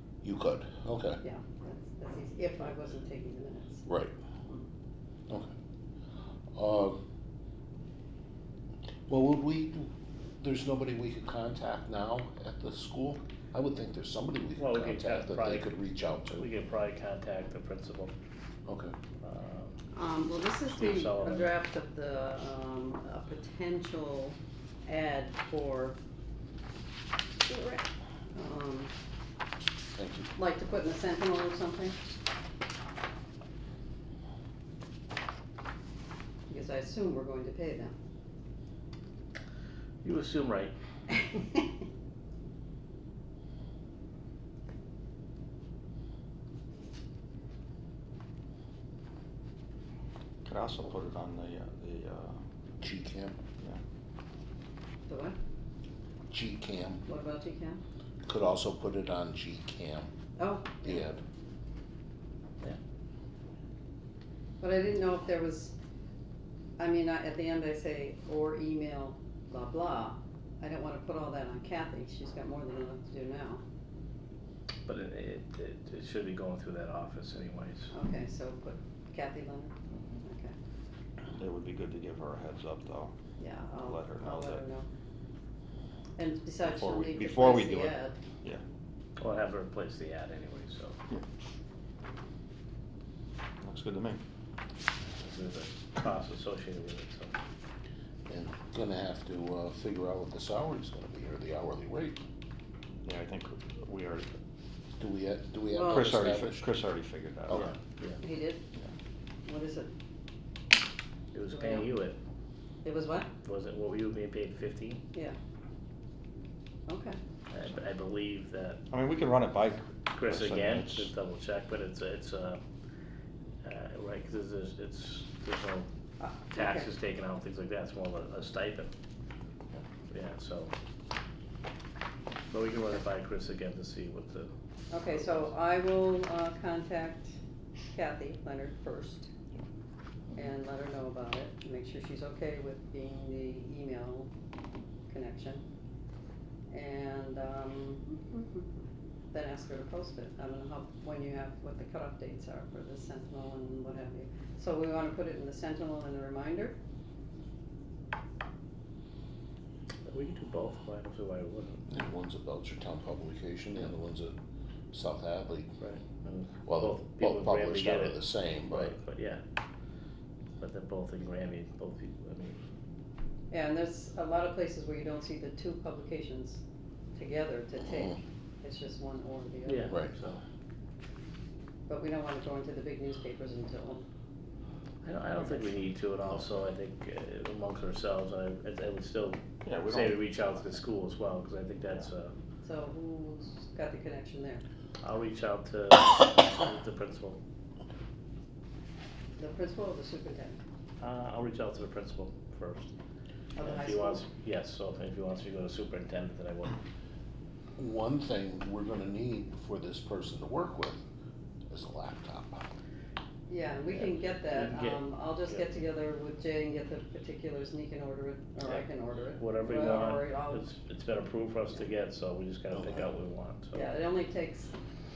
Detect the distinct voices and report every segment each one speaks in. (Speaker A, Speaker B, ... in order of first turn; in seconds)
Speaker A: 0.2-1.2, 3.9-4.1, 6.5-7.0, 9.1-16.4, 18.7-18.9, 29.9-30.3, 52.8-53.4, 56.3-57.0, 58.2-60.1, 60.8-61.2, 98.3-102.2, 105.0-106.7, 161.9-164.3, 164.9-165.7, 166.7-168.9, 207.8-211.0, 211.7-212.7, 222.8-223.0
Speaker B: 1.2-3.9, 19.9-26.0, 27.5-28.9, 30.4-32.0, 36.5-37.9, 55.1-55.4, 57.0-57.8, 60.4-61.0, 64.6-65.7, 66.8-73.6, 77.9-80.5, 83.4-84.9, 86.2-88.2, 105.7-106.1, 108.2-108.6, 109.5-109.9, 111.5-111.9, 112.8-113.3, 116.9-117.2, 126.2-126.9, 134.9-137.4, 137.9-139.3, 140.3-144.3, 145.1-145.6, 146.7-156.8, 173.5-176.6, 177.1-179.9, 181.9-184.0, 192.6-194.6, 199.4-200.6, 203.6-204.2, 213.5-220.7, 223.7-224.7
Speaker C: 14.6-18.1, 19.2-19.8, 20.7-21.5, 40.0-40.7, 74.8-77.9, 89.2-91.0, 95.2-97.3, 107.5-108.2, 111.3-112.2, 113.4-115.0, 117.5-118.8, 120.1-122.6, 123.6-125.9, 126.5-128.9, 130.1-130.7, 132.5-134.5, 160.1-161.9, 165.8-169.4, 170.6-172.6, 179.7-180.4, 185.0-192.3, 195.0-197.4, 201.0-202.9, 203.6-206.8, 213.9-215.5, 219.3-223.9
Speaker D: 50.4-52.4, 81.3-83.1, 83.8-84.6, 86.6-88.6, 93.6-94.2, 103.0-104.3, 105.9-107.7, 118.9-121.1, 189.6-190.2